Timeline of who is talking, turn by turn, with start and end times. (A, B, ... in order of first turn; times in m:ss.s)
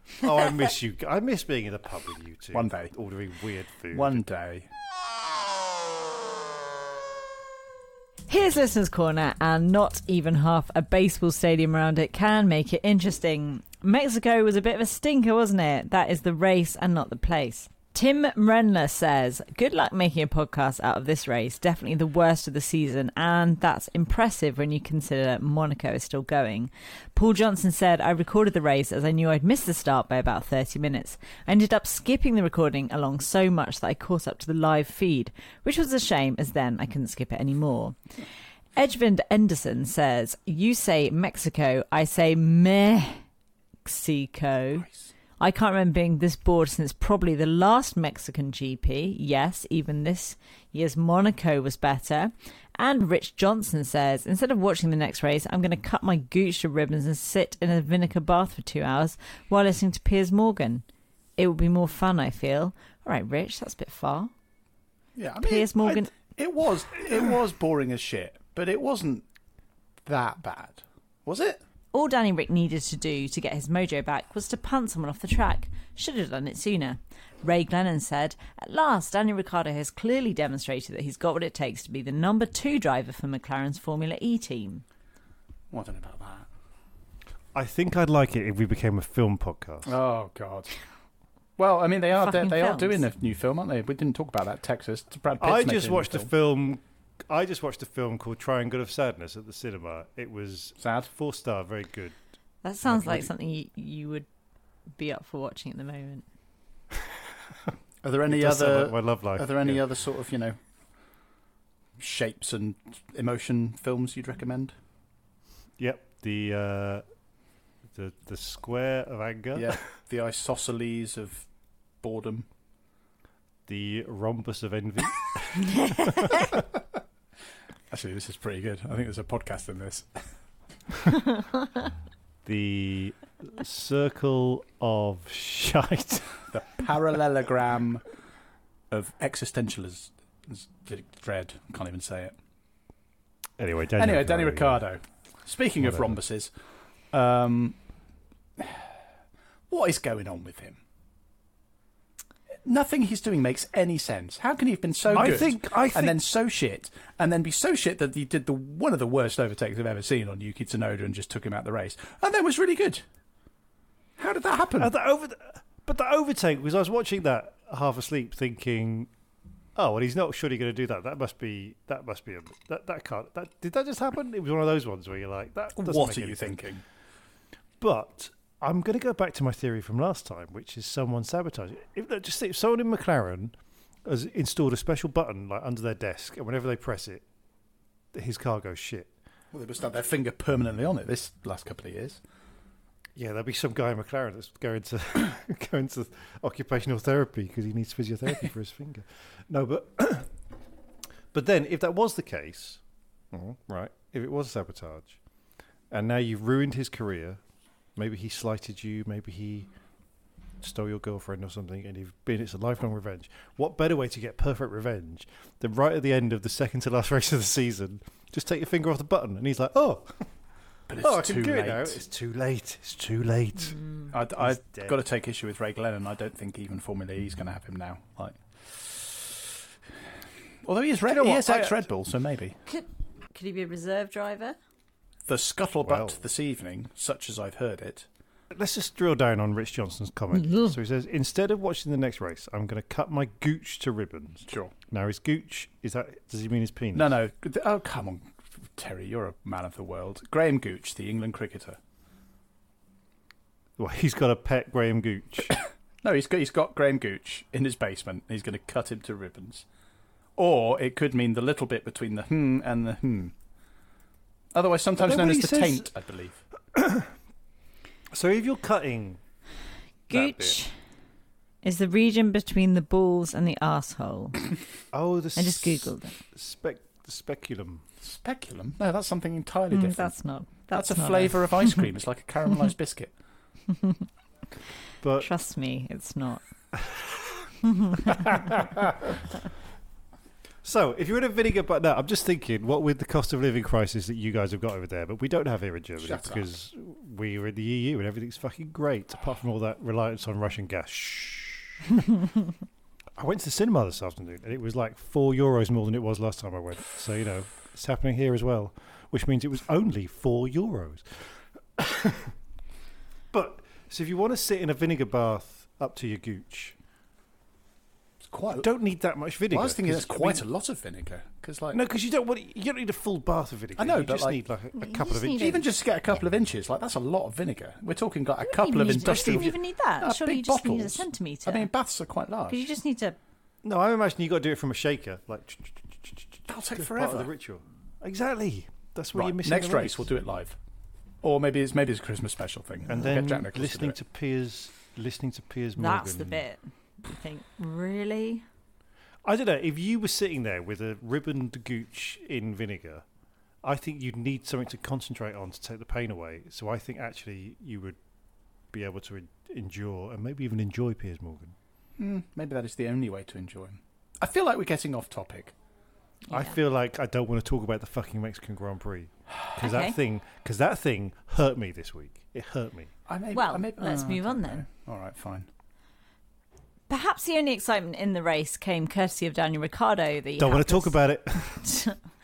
0:00.2-0:04.2 A
0:02.5-0:02.9 B
0:03.9-0:04.7 B
0:08.3-0:38.0 C
0:38.8-0:43.2 C
0:43.8-0:44.8 C
0:44.8-0:45.1 B
0:45.4-1:00.8 C
1:01.4-1:04.3 C
1:05.2-1:09.2 B
1:05.4-1:06.1 C
1:10.0-1:11.6 B
1:11.9-1:24.8 C
1:25.7-1:26.5 B
1:27.5-1:29.9 A
1:29.8-1:30.9 B
1:31.6-1:36.3 B
1:32.2-1:33.0 C
1:35.4-1:42.1 A
1:40.8-1:41.1 B
1:42.6-1:44.3 C
1:44.9-1:46.2 C
1:48.0-1:50.6 B
1:48.2-1:49.8 A
1:52.0-1:54.7 B
1:55.8-1:57.1 A
1:57.9-1:59.8 A
1:59.5-2:02.5 B
2:03.7-2:06.6 A
2:07.9-2:10.3 B
2:12.4-2:16.5 A
2:16.5-2:18.1 B
2:18.9-2:22.3 B
2:23.6-2:24.9 A
2:24.0-2:26.5 B
2:25.8-2:26.2 A
2:27.1-2:27.9 B
2:28.6-2:28.9 B
2:29.7-2:30.8 B
2:32.6-2:43.0 B
2:35.1-2:36.2 A
2:44.2-2:44.9 B
2:44.8-2:49.1 A
2:49.7-2:56.7 A
2:55.8-2:56.8 B
2:57.8-3:07.2 A
3:08.1-3:09.1 A
3:09.5-3:12.2 B
3:13.2-3:20.4 A
3:21.3-3:25.2 A
3:25.9-3:29.7 A
3:30.6-3:45.0 A
3:40.9-3:42.0 B
3:43.8-3:44.0 C
3:44.1-3:49.2 B
3:50.6-3:52.6 B
3:51.1-3:51.8 A
3:52.6-3:54.6 C
3:55.3-3:58.0 B
3:55.8-3:56.2 A
3:58.5-4:07.1 A
4:00.3-4:00.7 C
4:04.5-4:04.7 B
4:06.9-4:11.8 B
4:13.8-4:15.6 A
4:16.0-4:19.6 B
4:20.4-4:23.3 B
4:24.5-4:26.4 B
4:25.0-4:25.9 A
4:26.7-4:27.1 A
4:28.1-4:29.2 A
4:30.1-4:30.8 C
4:30.1-4:30.6 A
4:31.6-4:34.4 C
4:34.9-4:37.8 A
4:35.4-4:36.1 C
4:38.0-4:43.1 B
4:39.7-4:41.8 C
4:45.0-4:45.3 A
4:45.2-4:46.4 C
4:46.7-4:47.5 A
4:48.2-4:49.0 A
4:50.6-5:01.8 A
4:56.0-4:56.4 B
5:03.2-5:12.4 A
5:13.3-5:16.8 A
5:18.2-5:18.7 B
5:18.5-5:20.4 A
5:19.5-5:21.8 B
5:21.7-5:25.6 A
5:23.8-5:24.4 B
5:24.8-5:25.6 C
5:25.3-5:32.6 B
5:28.4-5:31.7 C
5:29.0-5:29.5 A
5:32.5-5:33.2 C
5:33.6-5:40.1 A
5:36.5-5:37.3 B
5:39.1-5:40.6 B
5:41.2-5:44.0 B
5:42.9-5:46.4 A
5:45.8-5:48.4 C
5:49.2-5:53.0 A
5:53.6-5:58.0 A
5:58.7-6:01.5 A
6:02.0-6:05.5 B
6:06.3-6:06.5 C
6:06.3-6:12.9 A
6:09.6-6:10.0 C
6:13.1-6:15.5 B
6:13.3-6:14.6 C
6:16.9-6:22.0 C
6:20.4-6:21.7 A